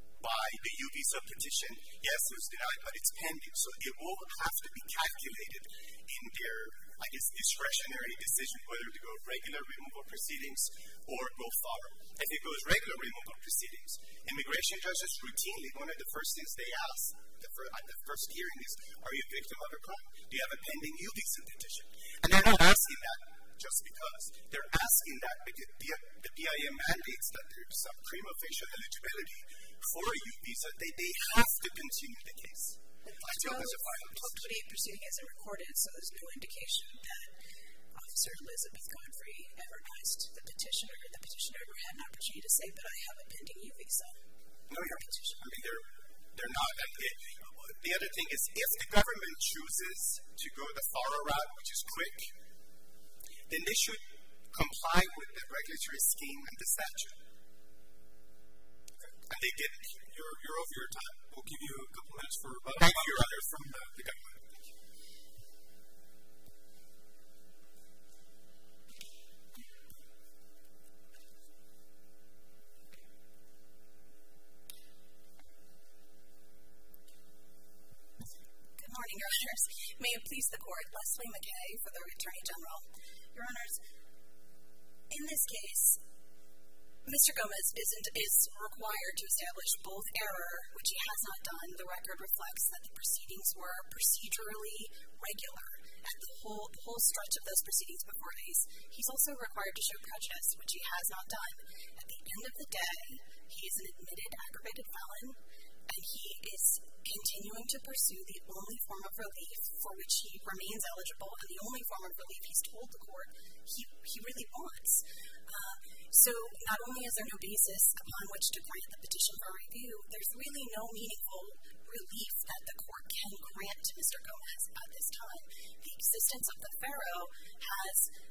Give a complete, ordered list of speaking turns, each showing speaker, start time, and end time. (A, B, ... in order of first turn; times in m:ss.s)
0:00.2-0:34.4 A
0:33.0-0:37.3 B
0:37.9-0:44.2 B
0:44.7-0:52.3 A
0:47.4-0:47.8 C
0:53.5-0:57.2 A
0:59.3-1:01.2 A
1:01.2-1:04.4 C
1:02.8-1:04.3 A
1:18.8-1:23.8 D
1:25.1-1:26.0 D
1:27.0-2:08.1 D